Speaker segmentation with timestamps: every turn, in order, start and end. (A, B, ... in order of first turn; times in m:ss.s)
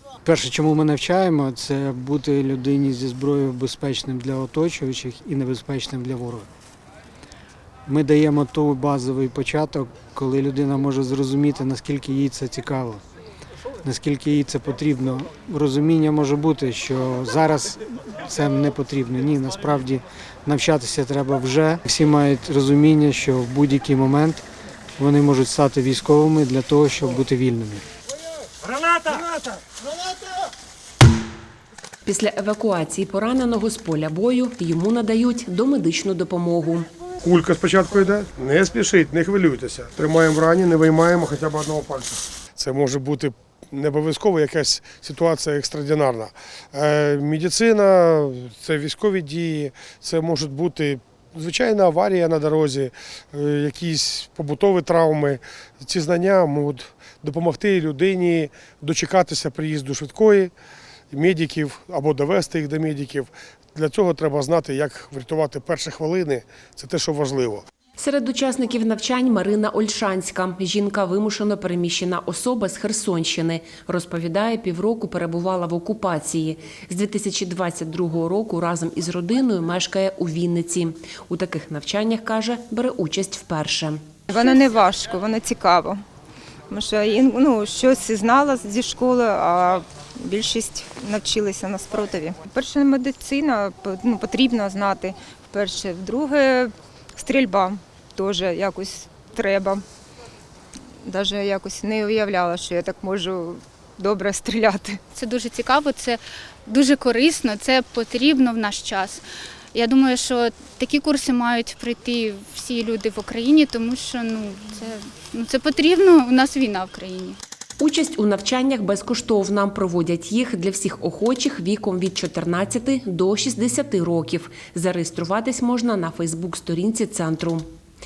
0:00.2-0:06.5 A
0:07.9-0:13.0 A
0:13.8-0:24.4 A
0:25.0-0:27.8 A
0:32.0-0:36.9 B
0:37.2-1:00.5 C
1:01.1-1:07.6 C
1:08.0-1:24.0 B
1:24.3-1:26.0 D
1:26.7-1:39.8 D
1:41.0-1:45.0 D
1:45.1-1:57.4 E
1:57.8-2:07.6 B